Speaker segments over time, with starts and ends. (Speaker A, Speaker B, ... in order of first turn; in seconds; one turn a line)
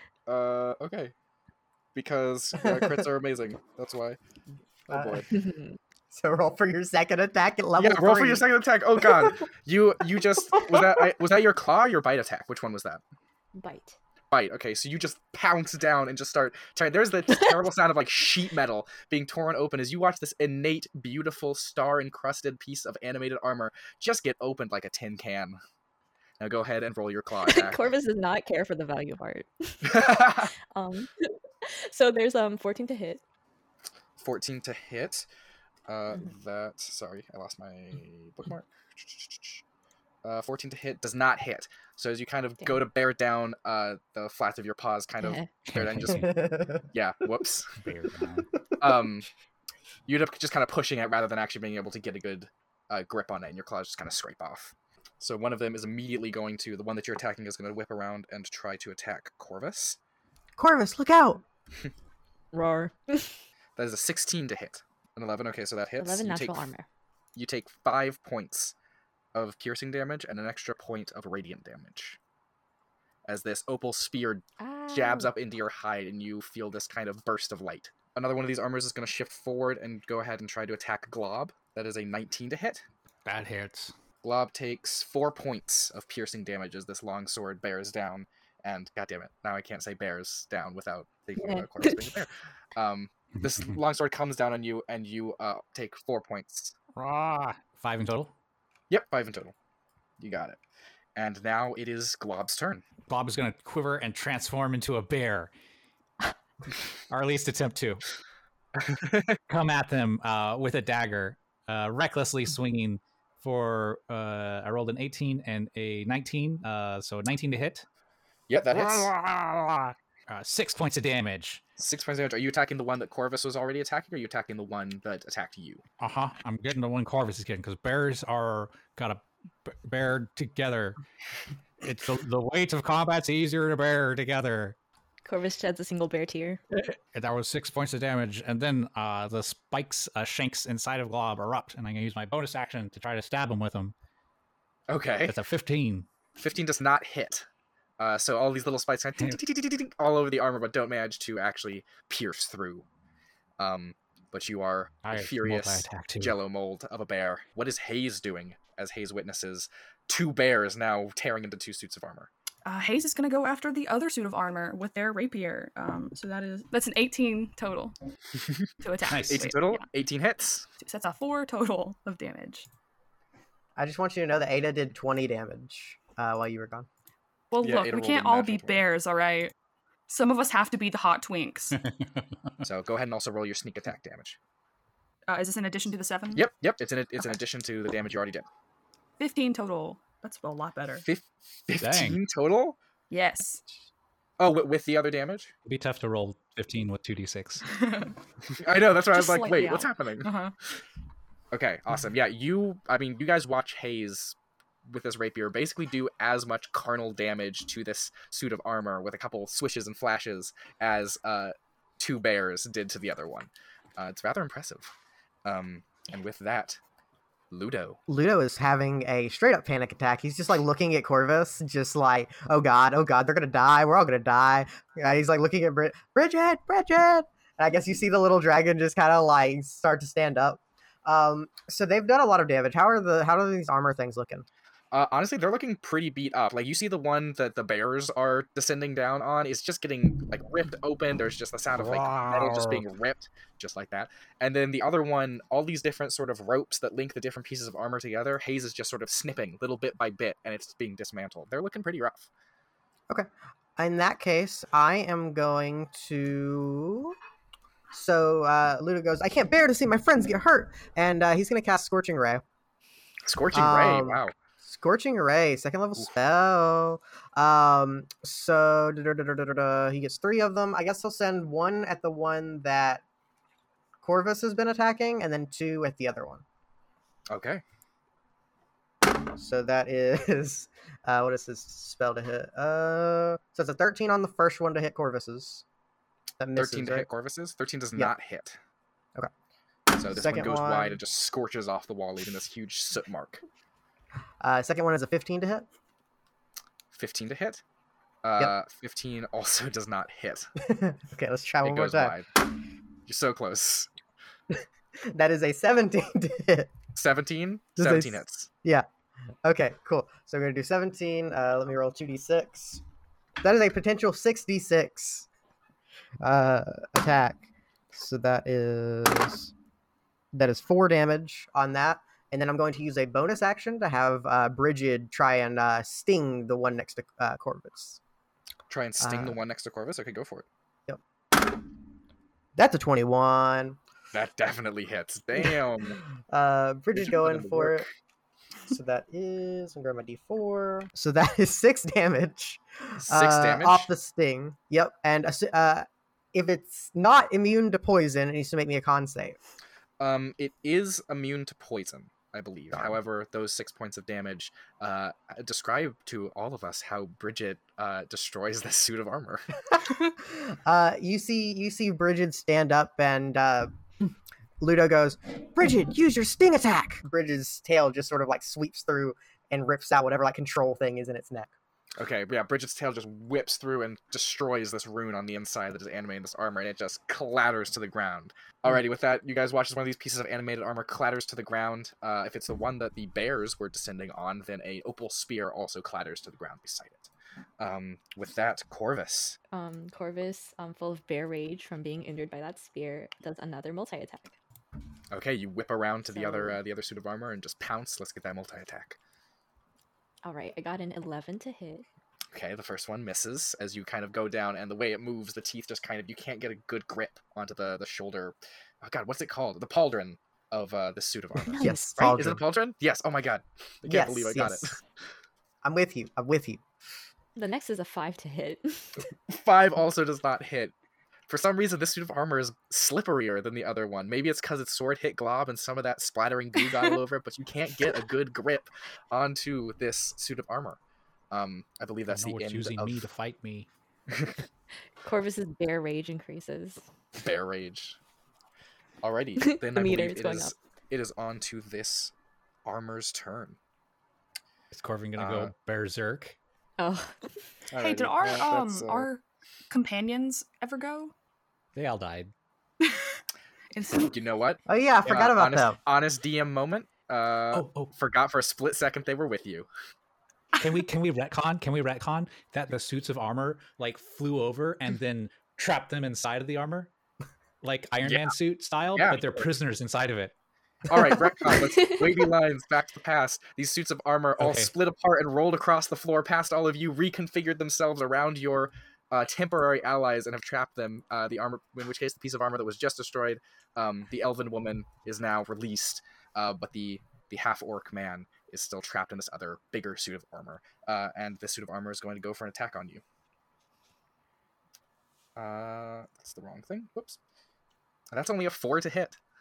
Speaker A: 0.3-1.1
Speaker A: 1.9-4.2
Speaker B: 2.6-3.0
Speaker B: 4.9-5.3
Speaker A: 4.9-5.3
Speaker C: 5.3-5.8
Speaker B: 6.1-8.4
Speaker A: 7.8-13.0
Speaker B: 9.0-9.3
Speaker B: 10.5-11.1
Speaker C: 13.6-13.9
Speaker A: 14.3-25.6
Speaker A: 26.4-27.9
Speaker C: 27.4-33.2
Speaker A: 29.8-30.5
Speaker A: 34.2-35.2
Speaker A: 35.9-39.6
Speaker A: 40.2-46.4
Speaker C: 45.2-45.5
Speaker D: 45.6-46.4
Speaker B: 46.1-46.8
Speaker A: 46.9-47.7
Speaker D: 47.8-48.5
Speaker A: 48.8-49.3
Speaker A: 50.1-60.0
Speaker B: 60.6-61.4
Speaker C: 62.5-63.4
Speaker A: 63.8-66.7
Speaker C: 66.0-66.9
Speaker A: 67.3-68.7
Speaker A: 69.3-72.2
Speaker A: 73.2-82.8
Speaker C: 74.6-75.3
Speaker D: 83.2-83.9
Speaker A: 84.2-96.7
Speaker C: 91.4-92.2
Speaker D: 97.0-98.3
Speaker A: 98.9-99.5
Speaker A: 100.2-100.6
Speaker A: 101.2-102.8
Speaker D: 103.1-105.5
Speaker D: 107.1-108.0
Speaker A: 108.8-109.3
Speaker D: 109.5-117.8
Speaker A: 118.5-119.1
Speaker D: 118.7-121.6
Speaker A: 121.8-125.8
Speaker D: 126.0-131.0
Speaker D: 131.8-134.8
Speaker C: 135.2-136.6
Speaker D: 136.7-143.9
Speaker A: 144.9-145.3
Speaker D: 145.3-146.1
Speaker A: 146.4-147.4
Speaker A: 148.0-152.8
Speaker A: 153.6-162.3
Speaker D: 155.0-156.3
Speaker E: 162.6-167.9
Speaker E: 168.8-169.8
Speaker D: 169.1-169.5
Speaker A: 169.2-170.7
Speaker E: 170.8-172.7
Speaker B: 173.8-176.9
Speaker E: 177.5-179.5
Speaker A: 177.6-178.8
Speaker E: 180.1-181.8
Speaker D: 181.7-182.3
Speaker A: 182.6-184.4
Speaker E: 185.3-186.5
Speaker A: 186.3-188.5
Speaker E: 189.2-191.0
Speaker A: 191.0-192.8
Speaker D: 191.8-192.2
Speaker E: 193.1-193.6
Speaker A: 194.4-195.5
Speaker D: 195.7-197.7
Speaker E: 197.7-198.1
Speaker A: 198.6-200.3
Speaker E: 199.1-200.5
Speaker A: 201.5-204.3
Speaker A: 204.9-214.9
Speaker A: 215.4-216.8
Speaker A: 217.5-218.0
Speaker B: 218.1-234.4
Speaker A: 234.9-252.3
Speaker D: 241.8-242.8
Speaker B: 253.1-257.2
Speaker B: 257.9-262.4
Speaker A: 263.2-264.3
Speaker B: 263.5-273.0
Speaker B: 274.0-276.4
Speaker A: 277.3-277.6
Speaker B: 279.0-285.6
Speaker B: 286.4-287.1
Speaker A: 286.6-288.6
Speaker A: 289.9-293.4
Speaker B: 290.0-291.0
Speaker B: 294.4-295.6
Speaker A: 296.9-297.6
Speaker A: 298.2-300.5
Speaker B: 300.6-302.1
Speaker A: 301.6-302.3
Speaker A: 303.1-303.9
Speaker B: 304.5-306.7
Speaker A: 306.9-308.5
Speaker B: 307.8-308.9
Speaker B: 309.4-312.8
Speaker B: 313.4-315.2
Speaker B: 316.2-319.5
Speaker B: 320.3-328.0
Speaker A: 328.7-330.4
Speaker B: 329.0-329.4
Speaker B: 330.9-331.6
Speaker B: 332.6-333.8
Speaker A: 334.1-336.0
Speaker B: 336.3-337.9
Speaker A: 336.9-337.9
Speaker B: 338.7-349.4
Speaker A: 343.0-343.9
Speaker A: 350.0-359.6
Speaker B: 359.7-371.5
Speaker A: 372.0-389.4
Speaker C: 389.5-394.3
Speaker A: 395.1-399.0
Speaker C: 396.1-396.6
Speaker C: 400.2-401.9
Speaker A: 402.3-414.8
Speaker C: 411.5-411.9
Speaker B: 411.6-412.4
Speaker B: 413.8-414.8
Speaker B: 415.6-416.6
Speaker C: 417.4-419.1
Speaker A: 419.3-420.7
Speaker A: 421.3-430.8
Speaker A: 431.3-433.1
Speaker D: 432.1-433.7
Speaker C: 435.0-436.8
Speaker A: 437.2-438.0
Speaker A: 439.0-442.1
Speaker C: 439.4-440.5
Speaker A: 442.6-443.6
Speaker D: 444.7-446.4
Speaker A: 445.2-445.5
Speaker C: 446.8-447.3
Speaker A: 447.7-449.1
Speaker E: 447.8-451.1
Speaker D: 451.7-452.3
Speaker E: 452.8-453.2
Speaker E: 453.7-454.1
Speaker A: 454.0-459.7
Speaker B: 454.7-455.8
Speaker D: 457.5-457.9
Speaker D: 460.6-466.9
Speaker D: 467.6-470.3
Speaker A: 468.0-468.3
Speaker A: 468.9-469.4
Speaker A: 470.9-493.0
Speaker D: 474.4-474.7
Speaker A: 495.4-497.2
Speaker A: 498.1-499.2